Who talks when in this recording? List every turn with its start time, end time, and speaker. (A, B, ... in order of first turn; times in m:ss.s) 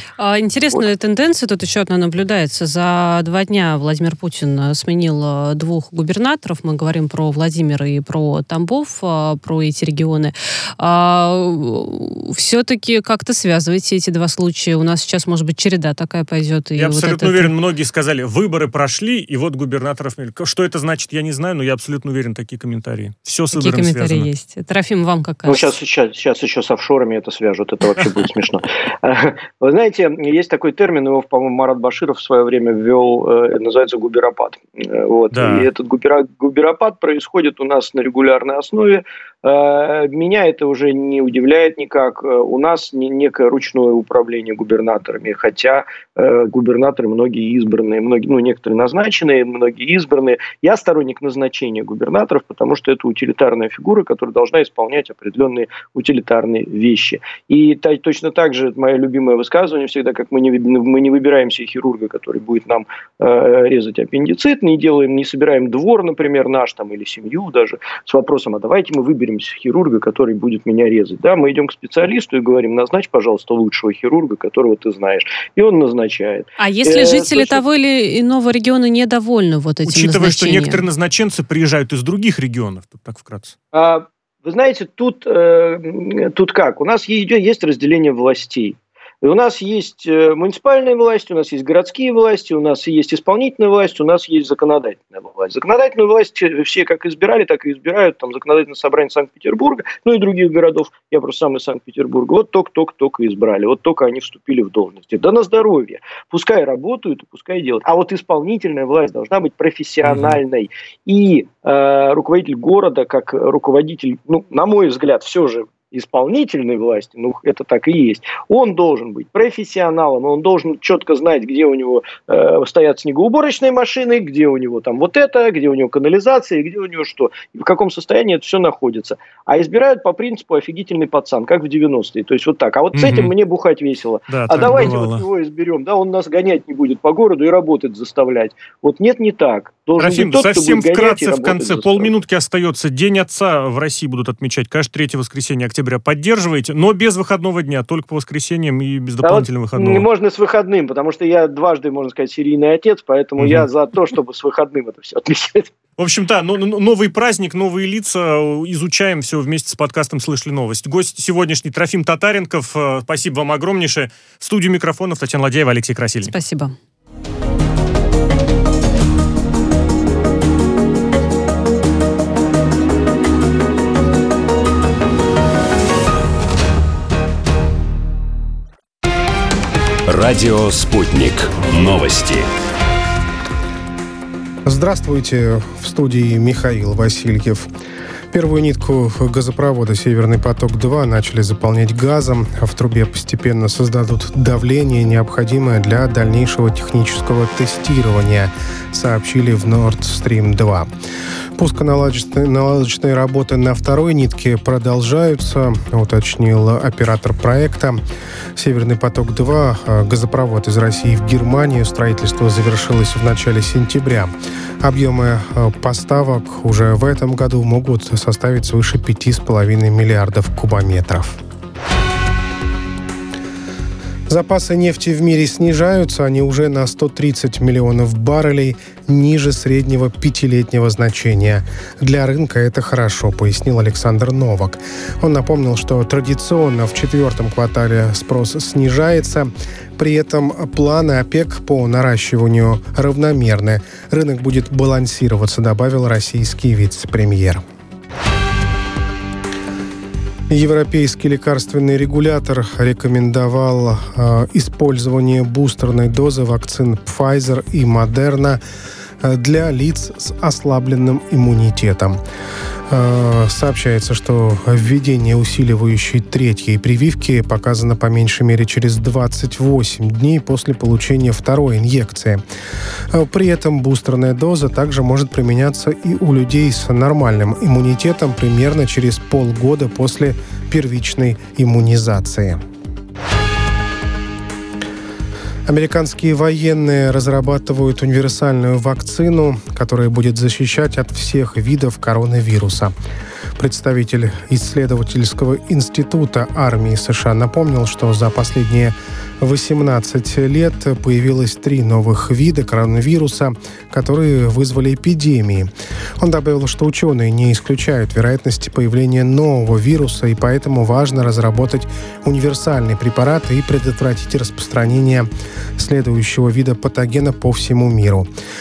0:00.2-0:17.5 A
0:16.8-0:24.3 B
0:23.5-0:25.7 A
0:25.4-1:17.6 C
0:35.3-0:35.7 B
1:16.6-1:20.8 A
1:19.8-1:23.5 B
1:23.7-2:22.2 C
1:50.0-1:50.4 B
2:12.9-2:13.3 B
2:14.3-2:15.2 B
2:20.0-2:30.1 B
2:29.2-2:35.7 C
2:33.4-2:33.7 B
2:36.0-2:46.3 B
2:46.2-2:46.7 A
3:00.1-3:02.5 D
3:04.6-3:07.7 E
3:08.3-3:20.9 E
3:21.6-3:28.0 E
3:28.6-3:41.4 E
3:44.3-4:07.6 E
4:10.5-4:18.6 E
4:19.2-4:22.2 E
4:22.9-4:32.4 E
4:33.1-4:42.6 E
4:45.6-4:52.9 E
4:53.6-5:18.3 E